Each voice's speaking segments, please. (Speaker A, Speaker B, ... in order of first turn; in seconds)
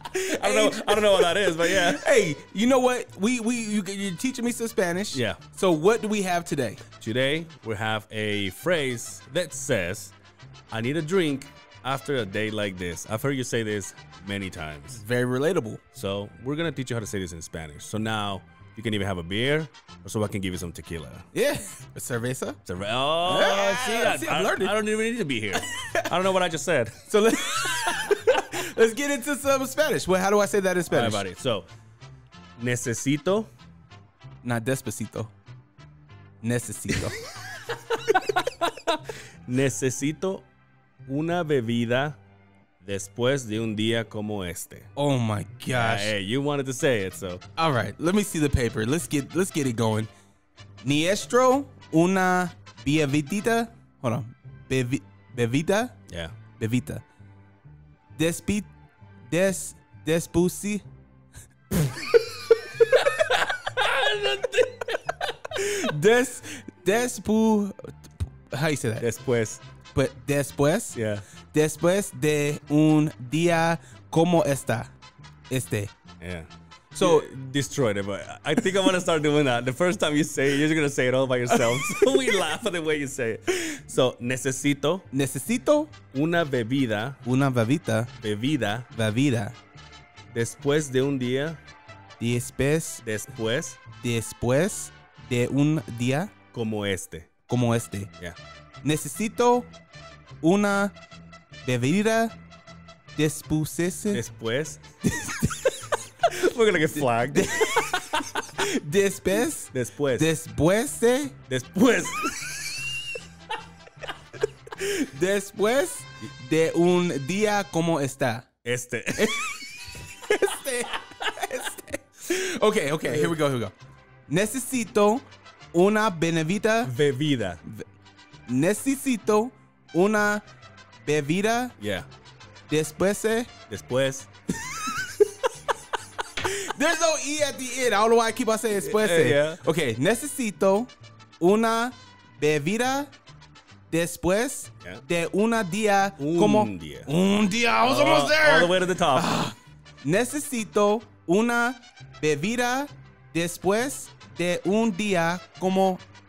Speaker A: 0.1-6.8, 14.9-15.8, 21.3-22.6, 23.2-24.7, 25.7-26.0, 27.1-31.2, 34.4-35.3, 36.4-37.2, 45.0-46.1, 47.6-50.1, 50.8-55.9, 56.6-57.0, 58.1-58.7, 59.3-60.8, 65.5-69.0, 69.9-71.0, 71.5-74.9, 75.5-75.9, 76.9-77.2, 81.6-82.1, 85.1-85.9, 87.2-88.1, 88.9-89.5, 92.2-93.0, 94.0-96.3, 97.5-98.1, 98.8-99.7, 100.4-100.9, 101.6-102.3, 103.2-104.2, 105.0-105.9, 107.0-111.3, 114.8-118.5, 119.2-123.7, 124.3-126.9, 128.5-130.4, 131.0-131.8, 132.7-133.5, 136.4-143.1, 143.9-156.0
Speaker B: 0.2-2.1, 5.1-5.4, 7.0-10.1, 10.7-15.0, 15.9-21.2, 22.6-27.0, 27.7-28.4, 30.9-31.6, 32.6-33.5, 38.1-40.4, 41.1-42.2, 42.8-44.9, 45.7-47.4, 56.1-56.3, 62.7-65.0, 69.0-69.6, 70.9-71.2, 76.2-76.5, 77.0-85.0, 86.1-87.2, 88.2-88.9, 90.3-91.6, 93.0-93.8, 96.5-97.3, 104.1-104.8, 106.3-108.4, 109.7-110.3, 111.5-113.1, 118.6-119.7, 123.1-123.3, 126.8-127.6, 131.8-132.1, 133.7-134.3, 138.8-139.6, 146.2-147.1, 147.8-149.3